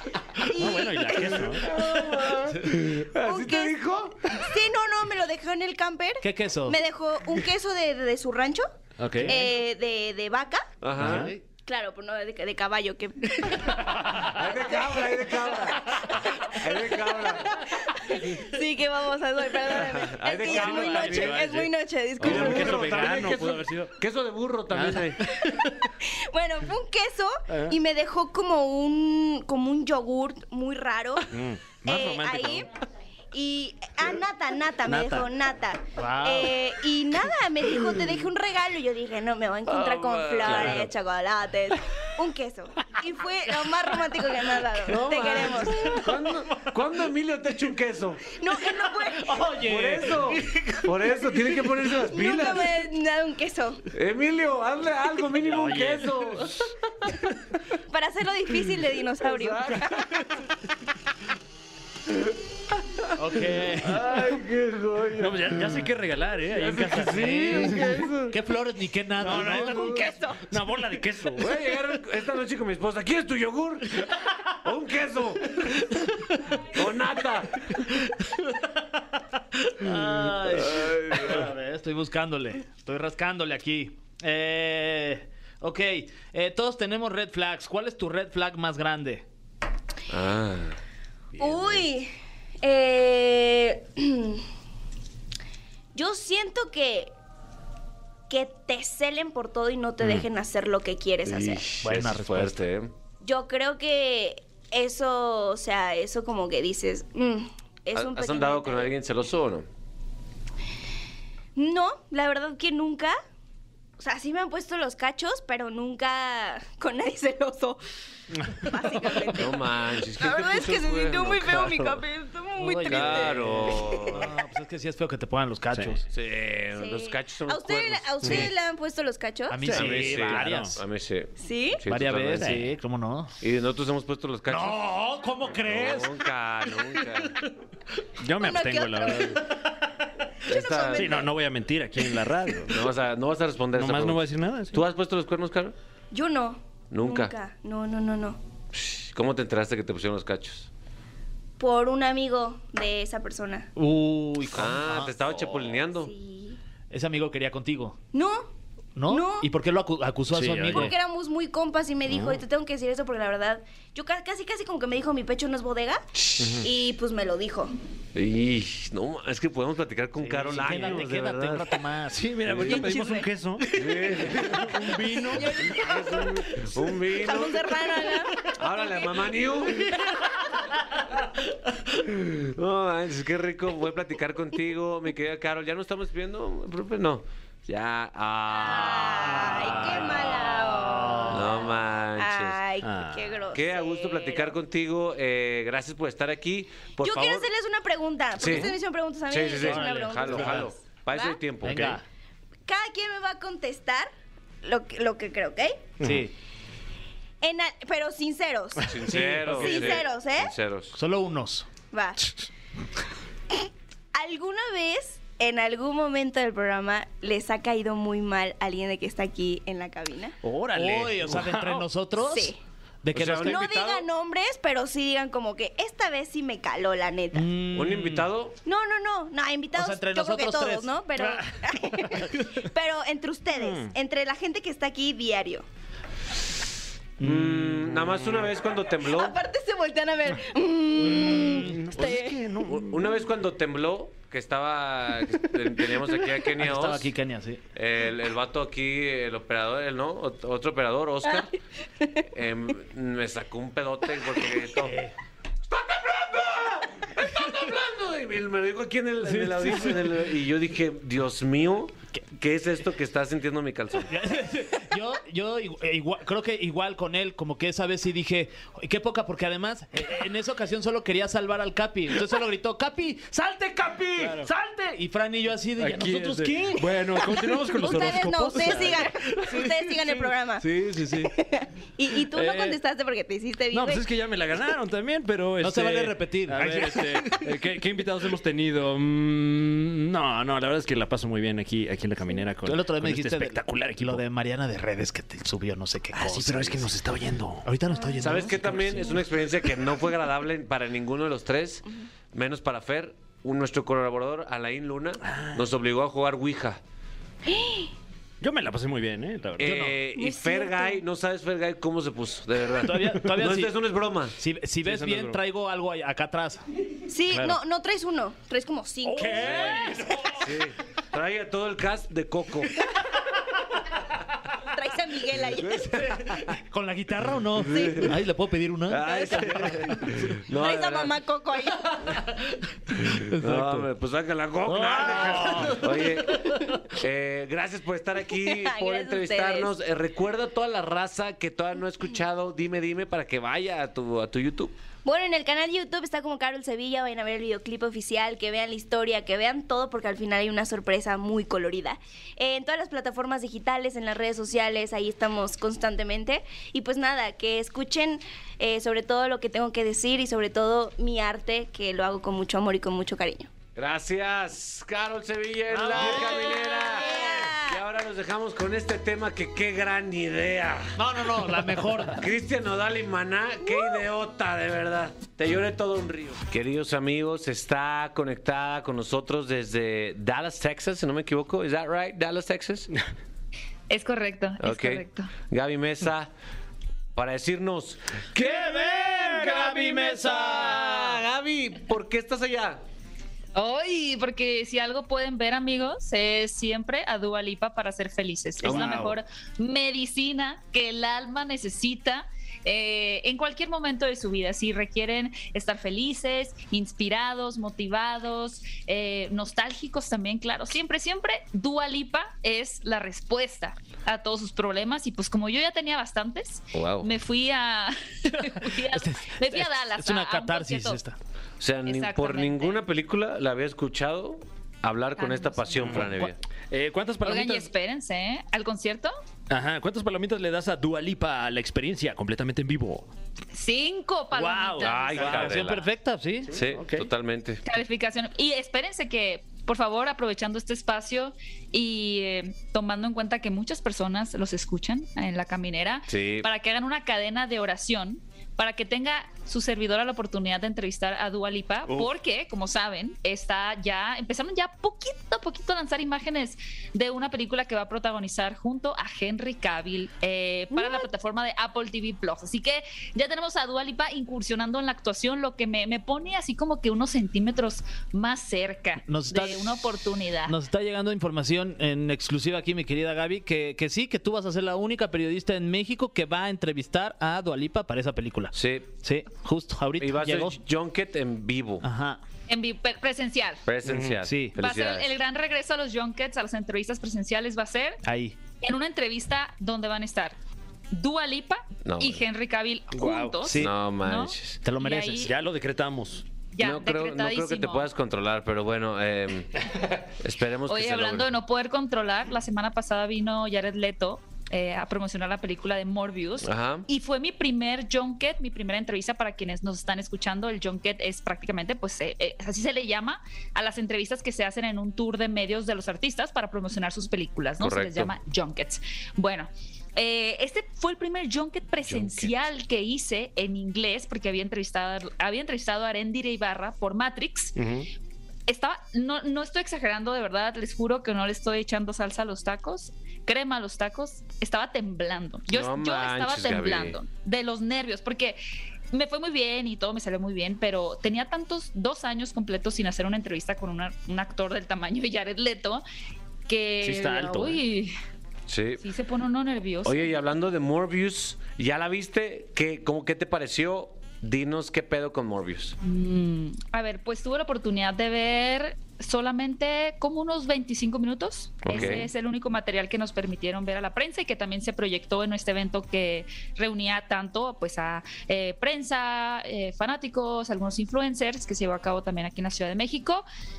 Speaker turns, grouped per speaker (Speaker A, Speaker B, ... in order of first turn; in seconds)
Speaker A: 0.4-1.8, 9.0-9.4, 11.0-11.3, 20.4-23.9, 24.7-25.9, 27.5-27.8, 31.3-32.7, 34.9-35.3, 40.4-40.9, 55.4-56.6, 65.2-67.8, 69.2-71.5, 118.4-118.7, 129.6-130.7, 132.3-132.7, 138.2-139.5, 140.9-142.9, 143.7-144.8, 160.3-160.9, 162.1-162.4, 166.4-166.7, 170.5-171.0, 172.1-175.7, 192.8-193.3, 201.7-202.0, 206.0-206.3, 209.1-209.6, 220.4-221.9, 233.5-233.9, 238.0-238.4, 241.0-243.0, 274.2-274.5, 275.8-280.2, 282.3-282.8, 283.7-294.2, 296.1-297.7, 305.2-305.6, 308.4-309.8, 314.8-315.4, 319.0-320.6, 398.7-399.0, 425.8-427.7, 429.5-433.1, 434.3-435.6, 436.6-437.1, 483.8-484.2, 492.9-493.4, 495.2-496.2, 527.5-527.9, 546.8-547.6, 561.7-562.0
Speaker B: 0.5-2.5, 3.2-8.7, 9.2-10.7, 11.7-14.1, 14.8-23.0, 25.4-32.7, 33.3-46.0, 48.3-49.4, 52.0-53.9, 57.9-60.1, 69.8-70.4, 91.4-92.1, 92.6-94.4, 95.9-97.1, 98.3-101.6, 103.2-108.9, 111.5-113.2, 114.0-117.8, 118.5-124.2, 126.7-129.7, 131.4-131.8, 138.3-139.4, 140.4-141.3, 146.1-148.4, 151.6-153.7, 155.9-156.6, 158.1-158.5, 159.1-159.5, 160.7-166.1, 166.6-167.7, 172.7-173.2, 175.3-179.5, 188.5-194.6, 197.0-201.4, 202.7-204.1, 204.6-205.9, 207.4-209.0, 209.5-210.5, 211.9-212.3, 214.1-220.4, 222.2-222.6, 223.4-227.5, 228.6-235.6, 239.0-242.4, 277.3-284.1, 297.9-298.4, 307.4-307.9, 310.1-311.0, 317.1-319.8, 324.7-325.9, 327.6-328.1, 329.0-329.8, 330.5-332.1, 338.4-339.7, 345.0-363.5, 366.0-367.8, 460.7-461.0
Speaker C: 1.2-4.4, 10.8-11.3, 14.1-17.6, 19.7-21.6, 22.2-25.3, 39.6-40.9, 44.8-48.4, 49.5-52.8, 53.9-57.1, 59.2-60.4, 63.7-65.9, 66.5-68.4, 69.5-70.1, 71.3-76.0, 76.6-77.8, 80.5-81.5, 90.1-90.8, 91.4-91.8, 101.2-102.9, 107.9-109.7, 119.3-122.0, 122.8-124.3, 126.1-128.5, 129.7-132.6, 133.4-137.4, 140.4-141.2, 142.7-145.7, 146.9-147.3, 148.7-150.7, 154.5-156.1, 166.4-166.7, 168.1-171.8, 173.7-174.9, 175.6-177.8, 178.4-180.1, 181.9-190.4, 191.2-192.6, 193.5-197.5, 198.4-198.8, 199.3-202.0, 208.8-210.9, 223.1-224.1, 227.7-228.6, 237.2-239.4, 242.6-247.1, 247.7-251.5, 252.2-255.0, 255.7-264.1, 298.2-306.8, 309.6-314.4, 319.4-319.8, 320.3-322.8, 325.5-326.6, 327.6-328.2, 328.9-331.2, 333.0-344.7, 363.7-371.0, 372.1-382.9, 384.6-386.3, 387.1-392.8, 398.6-399.1, 416.7-417.1, 421.6-426.4, 434.8-435.9, 436.5-437.6, 446.1-446.5, 478.5-478.9, 480.0-481.9, 483.6-485.1, 491.8-492.2, 493.5-494.6, 496.6-501.3, 506.4-506.9, 517.6-518.1, 521.8-522.3, 535.5-537.0, 548.5-548.8, 549.8-555.8, 561.6-562.1
Speaker D: 6.2-6.8, 11.0-11.4, 36.0-36.5, 49.1-50.9, 63.1-64.0, 67.1-69.9, 79.6-89.2, 101.8-102.6, 122.6-126.0, 128.2-128.5, 129.5-130.8, 131.9-133.3, 134.5-136.2, 153.8-155.2, 156.9-158.0, 158.9-160.9, 170.2-173.1, 190.8-191.3, 199.6-200.7, 201.6-202.0, 206.0-206.3, 209.1-209.8, 210.9-211.7, 220.7-222.5, 223.0-223.6, 227.3-228.3, 229.7-230.9, 237.2-237.9, 246.6-247.6, 254.8-255.1, 259.3-260.0, 264.1-276.9, 280.6-281.3, 285.6-287.5, 292.6-296.9, 297.6-299.1, 309.6-309.9, 312.8-313.7, 314.4-316.6, 326.4-329.9, 333.0-333.9, 334.7-335.8, 365.7-367.2, 370.9-372.2, 388.4-391.2, 398.7-399.1, 418.8-421.1, 435.1-436.5, 469.0-480.6, 481.8-482.2, 484.2-484.6, 488.0-488.4, 493.4-493.7, 494.6-495.3
Speaker E: 383.9-385.3, 393.5-421.0, 421.8-422.8, 425.2-426.0, 427.2-429.1, 433.5-435.2, 437.6-470.6, 482.5-483.6, 484.5-488.0, 488.6-490.4, 490.9-495.3, 496.5-497.9, 500.7-527.5, 528.5-538.4, 538.9-545.8, 546.5-547.9, 548.8-550.1, 555.8-573.2